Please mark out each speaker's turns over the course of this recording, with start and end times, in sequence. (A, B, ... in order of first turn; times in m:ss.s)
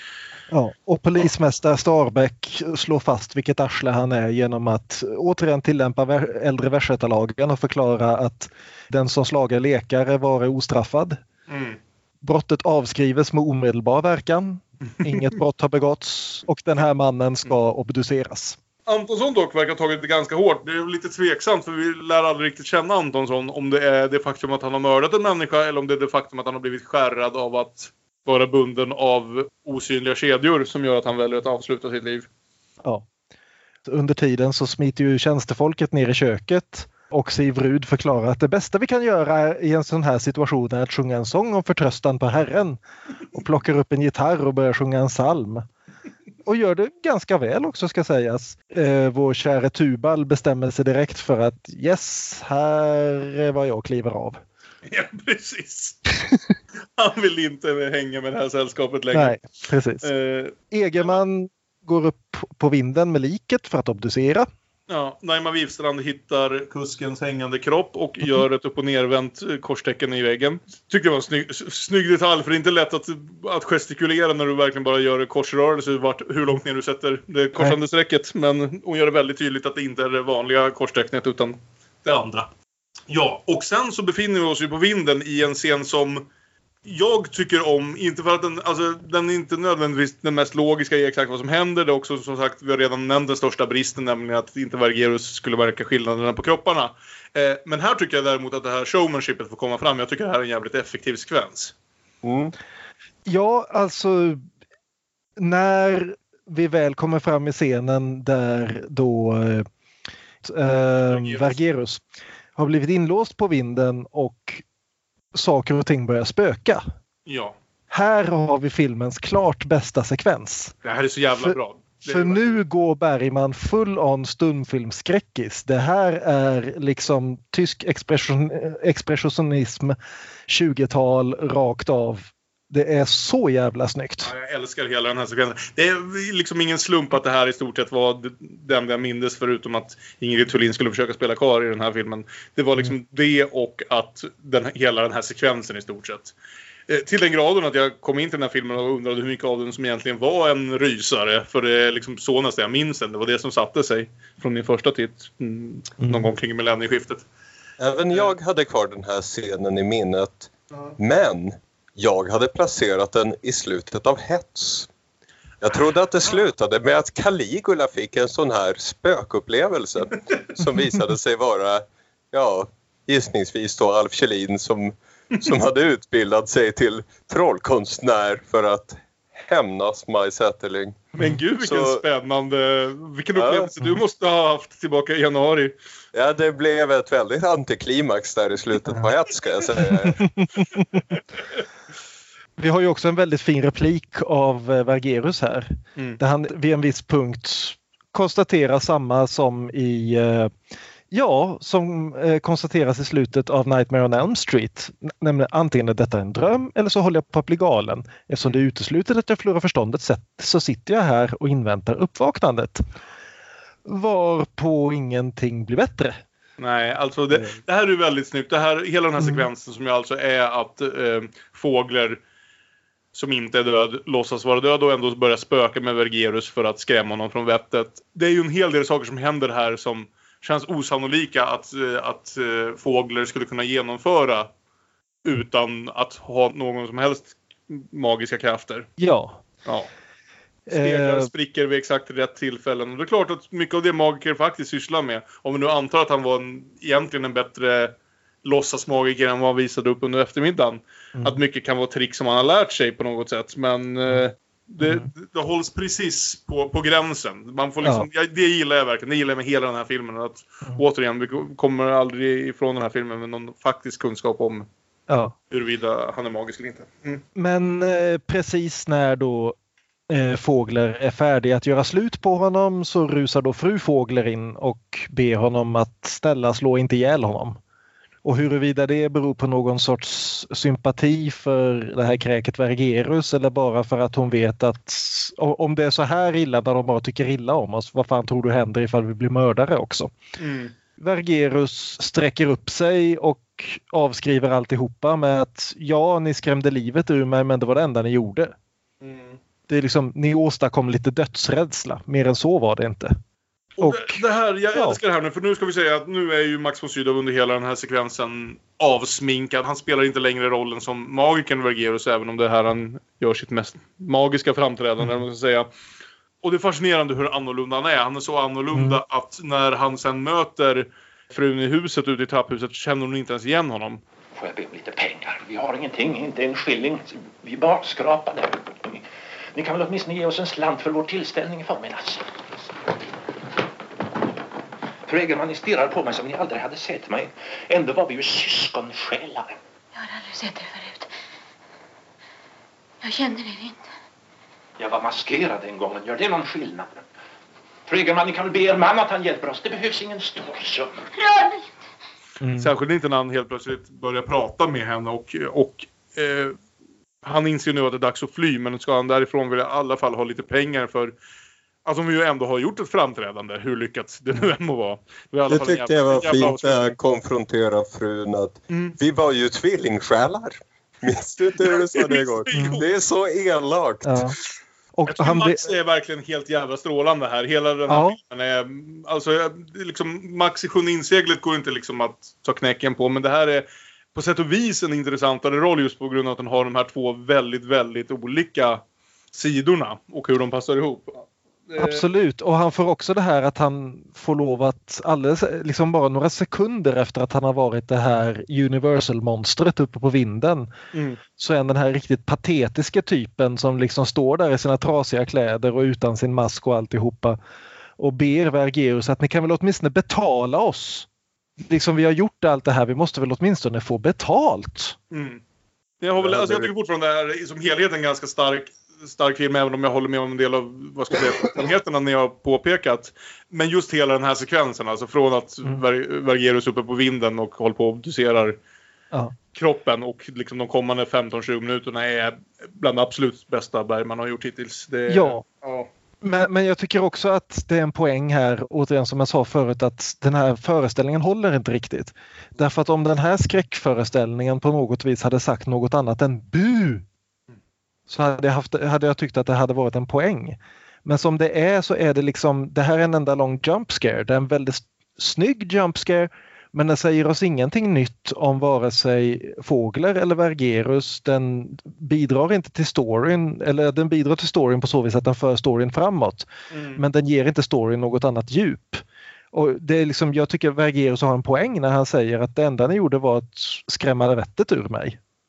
0:00.5-0:11.2 A
0:11.5-0:11.8 B
0:12.2-0:18.6 A
0:18.9-0:32.3 B
0:33.9-0:42.8 A
0:43.3-0:45.6 A
0:46.4-0:54.4 A
0:54.9-0:56.0 B
0:57.0-0:59.4 B
0:59.1-1:00.1 A
1:00.0-1:01.2 B
1:00.7-1:04.5 A
1:04.9-1:22.5 B
1:23.1-1:26.3 B
1:26.8-1:41.7 B
1:42.2-1:42.5 C
1:43.3-1:44.4 A
1:45.4-1:49.7 A
1:50.4-1:52.0 A
1:51.1-1:51.6 B
1:52.6-1:54.6 A
1:55.3-1:56.8 A
1:57.3-1:57.6 B
1:57.9-2:00.7 A
2:00.8-2:02.6 B
2:01.4-2:10.0 A
2:10.5-2:14.3 A
2:14.2-2:26.3 B
2:26.9-2:37.3 B
2:36.0-2:36.3 A
2:37.8-2:44.9 C
2:45.6-3:01.1 C
3:01.2-3:05.8 B
3:01.6-3:02.0 C
3:03.4-3:03.7 C
3:06.1-3:10.3 C
3:10.0-3:10.5 A
3:12.6-3:20.5 A
3:21.1-3:32.8 A
3:33.9-3:36.2 A
3:36.6-3:42.2 B
3:39.2-3:39.4 A
3:43.1-3:54.5 B
3:55.2-3:58.9 B
3:59.0-3:59.4 A
4:00.7-4:01.3 A
4:00.7-4:24.7 B
4:14.8-4:15.1 A
4:25.1-4:25.3 A
4:25.5-4:27.2 B
4:27.4-4:29.6 A
4:30.1-4:37.6 A
4:38.2-4:50.1 A
4:50.4-4:50.7 B
4:51.0-4:58.5 A
4:59.0-4:59.4 B
4:59.7-5:03.1 A
5:03.8-5:15.7 B
5:03.8-5:04.2 A
5:04.7-5:05.0 A
5:16.4-5:24.0 B
5:18.7-5:19.0 A
5:24.4-5:29.0 D
5:29.6-5:32.4 D
5:35.1-5:39.5 D
5:40.0-5:41.1 E
5:43.0-5:43.9 E
5:44.8-5:47.0 D
5:47.9-5:51.1 D
5:52.4-5:52.7 A
5:52.6-5:56.6 B
5:57.2-6:01.2 B
6:01.8-6:06.9 B
6:05.5-6:14.3 C
6:08.7-6:09.0 B
6:11.6-6:12.9 B
6:14.0-6:14.4 A
6:15.0-6:15.7 A
6:15.1-6:28.8 B
6:17.9-6:18.2 A
6:29.3-6:32.0 B
6:31.8-6:40.7 A
6:40.9-6:41.2 B
6:41.4-6:47.4 A
6:48.0-6:51.1 A
6:51.6-6:55.0 A
6:55.1-6:55.4 B
6:56.0-7:08.6 B
6:56.2-6:56.7 C
7:09.5-7:15.9 B
7:15.1-7:15.4 A
7:16.2-7:27.0 A
7:28.1-7:55.2 A
7:46.7-7:47.0 B